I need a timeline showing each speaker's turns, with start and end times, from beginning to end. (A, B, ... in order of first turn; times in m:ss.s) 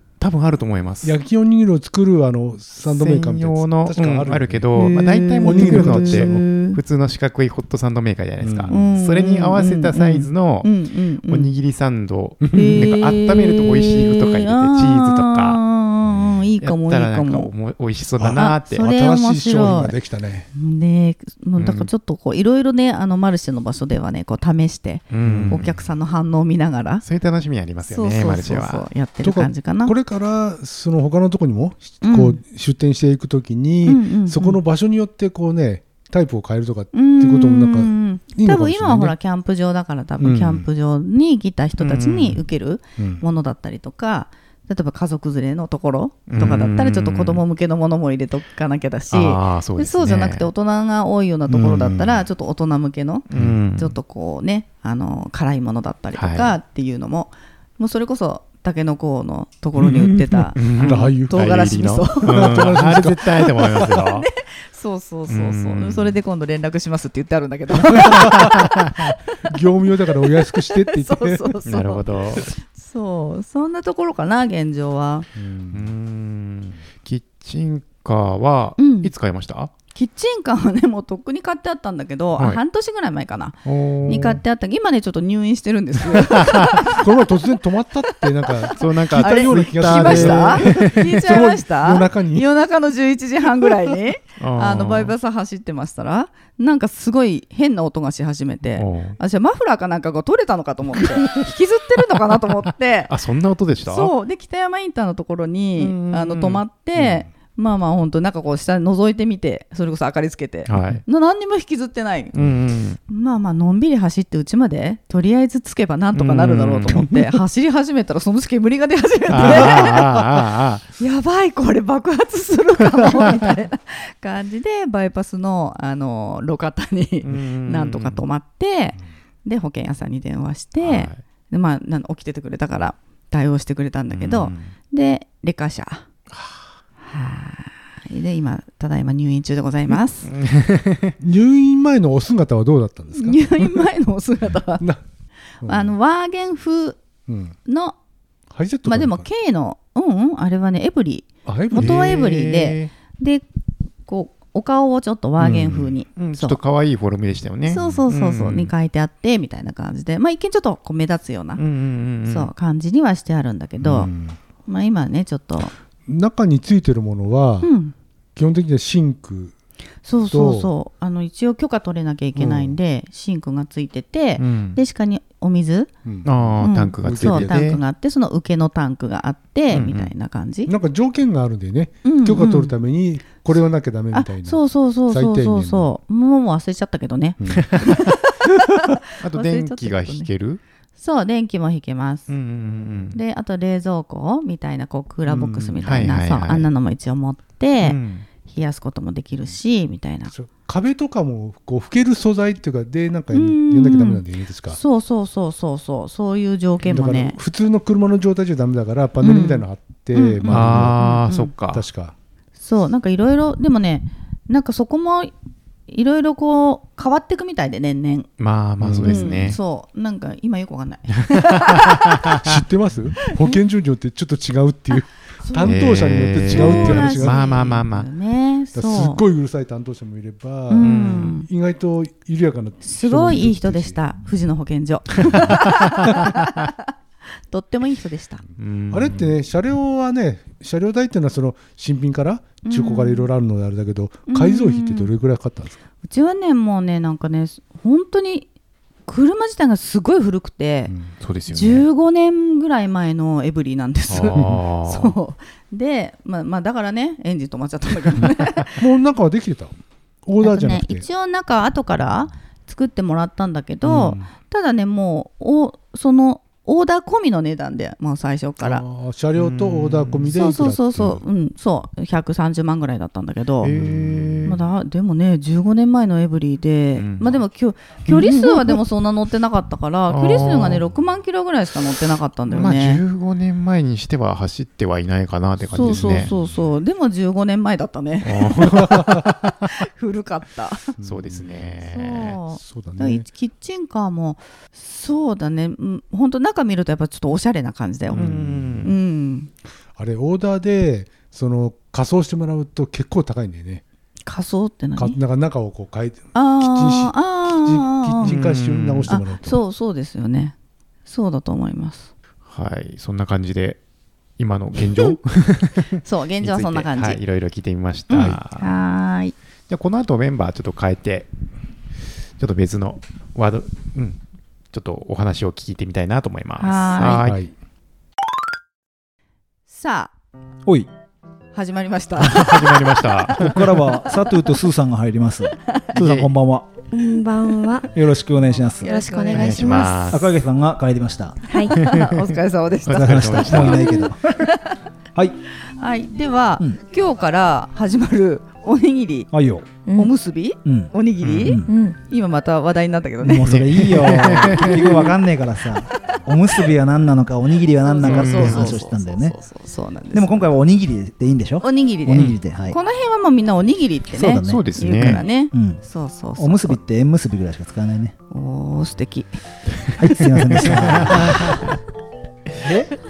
0:00.2-0:01.2 A
0:01.0-0:06.5 B
0:02.8-0:10.7 A
0:04.8-0:06.8 C
0:08.4-0:09.0 B
0:08.7-0:11.5 C
0:11.3-0:15.6 A
0:12.4-0:12.9 B
0:12.5-0:17.5 C
0:16.1-0:16.4 B
0:16.6-0:18.9 A
0:18.2-0:20.5 B
0:18.3-0:20.0 C
0:20.5-0:27.0 C
0:21.6-0:21.9 A
0:25.1-0:25.7 A
0:25.2-0:25.8 B
0:27.0-0:28.9 A
0:27.9-0:29.9 C
0:29.2-0:39.1 B
0:32.0-0:32.4 C
0:33.8-0:34.6 C
0:36.9-1:02.7 C
0:40.2-0:40.7 B
0:41.8-0:42.4 A
0:43.0-0:43.2 B
0:46.3-0:47.4 A
0:49.1-0:50.5 A
0:51.5-0:52.2 B
0:53.3-0:54.0 A
0:53.3-0:53.6 B
0:56.2-0:56.6 A
1:00.1-1:04.3 A
1:00.8-1:01.5 B
1:02.2-1:04.0 B
1:03.9-1:15.3 C
1:05.3-1:06.2 A
1:07.8-1:08.7 B
1:08.3-1:09.1 A
1:09.4-1:11.5 B
1:11.7-1:12.5 A
1:15.4-1:15.9 B
1:15.7-1:19.7 A
1:18.8-1:19.1 C
1:19.9-1:27.3 C
1:23.7-1:24.4 A
1:26.3-1:26.7 A
1:26.9-1:32.5 B
1:28.1-1:43.1 C
1:28.8-1:31.4 A
1:34.4-1:35.2 A
1:38.8-1:39.2 A
1:43.1-1:44.1 A
1:43.9-1:52.4 C
1:45.8-1:46.6 A
1:50.7-1:51.0 A
1:52.4-1:53.0 A
1:53.1-2:00.2 C
1:56.2-1:57.3 A
1:59.3-2:00.8 A
1:59.4-2:00.0 B
2:01.0-2:16.1 C
2:02.8-2:03.5 A
2:07.2-2:08.2 A
2:10.8-2:11.2 A
2:14.1-2:14.7 A
2:16.3-2:16.7 A
2:17.0-2:20.3 C
2:20.3-2:21.2 A
2:21.2-2:23.8 B
2:23.2-2:24.8 C
2:25.6-2:26.0 B
2:25.6-2:27.0 C
2:27.3-2:27.6 B
2:27.7-2:28.0 C
2:28.5-2:29.3 B
2:28.8-2:33.4 C
2:31.5-2:32.3 B
2:31.7-2:32.9 A
2:34.1-2:36.6 C
2:35.4-2:38.7 A
2:37.7-2:41.6 C
2:41.6-2:42.5 A
2:42.2-2:44.1 C
2:43.8-2:44.4 B
2:44.6-2:45.7 C
2:46.1-2:47.7 B
2:47.6-2:48.0 C
2:48.4-2:49.5 B
2:50.0-2:55.9 C
2:50.3-2:50.7 B
2:52.4-2:52.8 B
2:54.4-2:54.8 A
2:56.0-2:57.6 B
2:56.2-2:57.8 A
2:56.6-3:00.7 C
2:59.7-3:00.1 A
3:00.7-3:05.9 B
3:02.0-3:02.8 C
3:04.1-3:10.3 C
3:07.4-3:07.8 B
3:07.5-3:08.1 A
3:09.2-3:10.6 A
3:11.0-3:12.3 C
3:12.3-3:13.2 A
3:13.1-3:20.3 C
3:15.3-3:15.8 B
3:15.8-3:16.7 A
3:17.8-3:18.3 A
3:20.3-3:24.8 B
3:23.3-3:27.4 C
3:26.9-3:31.0 B
3:29.2-3:31.5 C
3:30.5-3:31.9 A
3:31.7-3:32.1 B
3:32.6-3:35.3 C
3:35.9-3:38.3 C
3:38.4-3:39.6 A
3:38.8-3:39.6 B
3:39.0-3:42.0 C
3:41.2-3:42.4 A
3:42.4-3:47.4 B
3:45.4-3:45.8 C
3:45.6-3:48.1 A
3:46.4-3:49.2 C
3:48.8-3:54.0 B
3:50.7-3:51.5 C
3:50.8-3:51.4 A
3:52.8-3:56.8 C
3:55.3-3:55.5 B
3:55.4-3:56.0 A
3:56.1-3:56.3 B
3:57.5-3:58.4 C
3:58.6-3:59.3 A
3:58.9-4:05.8 B
4:02.6-4:03.3 C
4:04.3-4:05.1 C
4:06.0-4:08.5 C
4:09.1-4:10.9 C
4:10.9-4:11.1 B
4:11.2-4:11.8 A
4:11.5-4:18.8 C
4:14.1-4:15.2 A
4:14.3-4:14.6 B
4:18.8-4:21.1 B
4:20.4-4:28.8 C
4:23.9-4:24.2 A
4:28.6-4:31.2 B
4:29.4-4:30.4 A
4:30.3-4:33.7 C
4:33.6-4:34.6 A
4:33.7-4:34.6 B
4:34.5-4:43.0 C
4:37.0-4:37.4 A
4:38.1-4:38.5 A
4:40.1-4:40.8 A
4:42.5-4:46.3 A
4:45.6-4:46.7 B
4:45.7-4:49.1 C
4:48.2-4:49.7 A
4:49.6-4:50.9 C
4:51.0-4:51.6 B
4:51.0-4:52.4 A
4:51.8-4:59.5 C
4:52.5-4:53.2 B
4:58.1-4:58.9 A
4:58.2-4:58.9 B
5:00.0-5:03.8 B
5:04.3-5:05.2 C
5:05.0-5:09.6 B
5:06.3-5:08.4 C
5:08.2-5:09.1 A
5:09.1-5:10.6 C
5:11.1-5:12.1 C
5:12.5-5:13.8 A
5:14.4-5:18.7 A
5:16.0-5:17.2 C
5:18.1-5:19.4 C
5:18.1-5:18.4 B
5:19.7-5:21.3 A
5:22.4-5:24.2 A
5:24.7-5:27.4 A
5:26.6-5:27.3 C
5:27.1-5:27.5 B
5:29.7-5:30.1 C
5:31.5-5:33.0 C
5:32.2-5:33.9 A
5:33.3-5:36.7 D
5:34.0-5:34.5 C
5:35.9-5:36.3 A
5:36.9-5:37.9 E
5:37.9-5:38.9 D
5:38.7-5:40.0 C
5:38.8-5:40.2 E
5:39.3-5:40.3 A
5:40.1-5:41.4 D
5:41.5-5:44.8 C
5:41.5-5:41.8 E
5:41.8-5:42.3 A
5:42.9-5:43.9 A
5:42.9-5:44.5 D
5:43.8-5:44.1 E
5:45.7-5:49.3 C
5:49.3-5:49.7 D
5:49.8-5:50.1 E
5:49.9-5:55.2 C
5:50.6-5:51.7 D
5:51.2-5:51.6 A
5:51.7-5:52.0 E
5:53.2-5:59.4 D
5:53.4-5:54.9 A
5:57.8-6:00.4 C
5:58.0-5:58.8 A
6:00.1-6:02.8 D
6:01.6-6:06.8 C
6:04.1-6:05.8 D
6:04.4-6:05.2 A
6:06.4-6:08.2 D
6:08.3-6:09.4 C
6:10.0-6:11.7 D
6:10.3-6:11.6 C
6:10.6-6:11.7 A
6:12.6-6:12.9 D